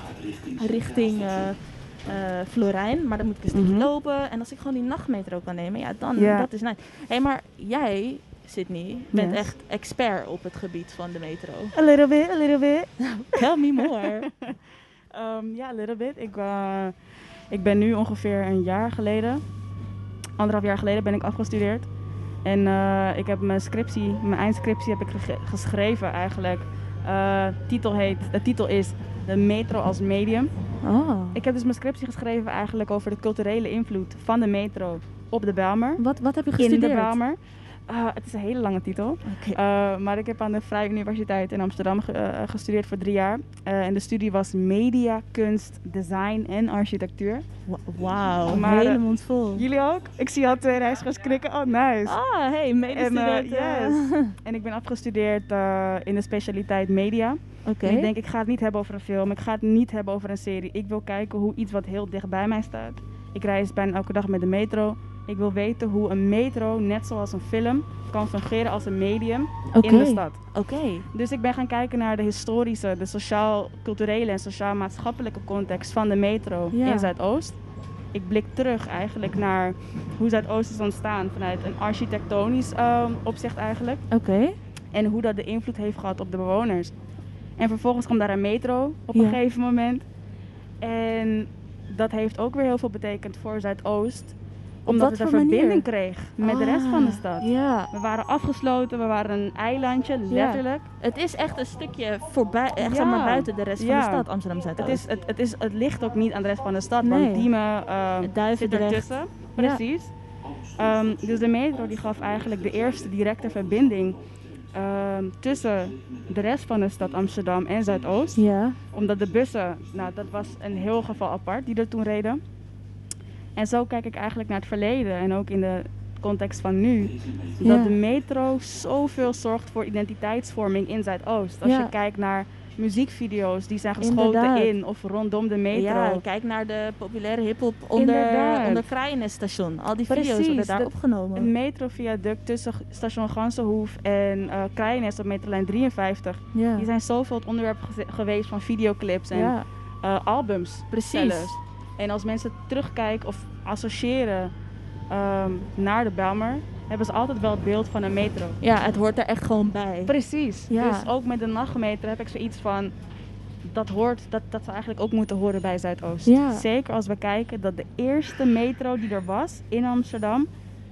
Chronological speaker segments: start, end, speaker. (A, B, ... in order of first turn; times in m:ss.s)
0:00.5-0:11.7 A
0:03.5-0:03.9 B
0:06.2-0:06.5 B
0:09.1-0:09.5 B
0:11.8-0:14.5 B
0:13.3-0:14.3 A
0:15.1-0:16.9 B
0:17.5-0:19.4 B
0:20.4-0:21.9 B
0:22.4-0:30.5 B
0:30.8-0:31.5 A
0:31.3-0:36.0 B
0:36.0-0:37.2 A
0:36.6-0:47.4 B
0:39.2-0:39.6 A
0:47.7-0:49.6 A
0:48.5-0:49.0 B
0:49.5-0:52.2 B
0:52.0-0:54.4 A
0:52.9-1:10.4 B
0:57.6-0:58.1 A
1:09.7-1:11.1 A
1:11.1-1:17.6 B
1:16.7-1:17.1 A
1:18.1-1:24.0 B
1:24.1-1:24.6 A
1:24.9-1:26.9 B
1:27.6-1:30.0 B
1:29.1-1:29.4 A
1:30.8-1:40.9 B
1:34.9-1:35.9 A
1:36.4-1:37.9 A
1:40.3-1:45.0 A
1:42.8-1:50.1 B
1:47.0-1:47.5 A
1:48.2-1:49.8 A
1:50.8-1:54.2 B
1:54.7-1:58.4 B
1:58.4-1:58.8 A
1:58.9-2:02.4 B
2:03.6-2:16.2 B
2:07.6-2:08.0 A
2:11.6-2:11.9 A
2:14.0-2:14.7 A
2:15.7-2:21.5 A
2:18.0-2:18.9 B
2:20.1-2:34.5 B
2:26.5-2:26.9 A
2:29.3-2:29.7 A
2:30.9-2:31.6 A
2:35.1-2:38.6 B
2:38.6-2:40.1 A
2:40.1-2:42.9 B
2:40.7-2:41.1 A
2:43.7-2:50.5 B
2:46.2-2:46.6 A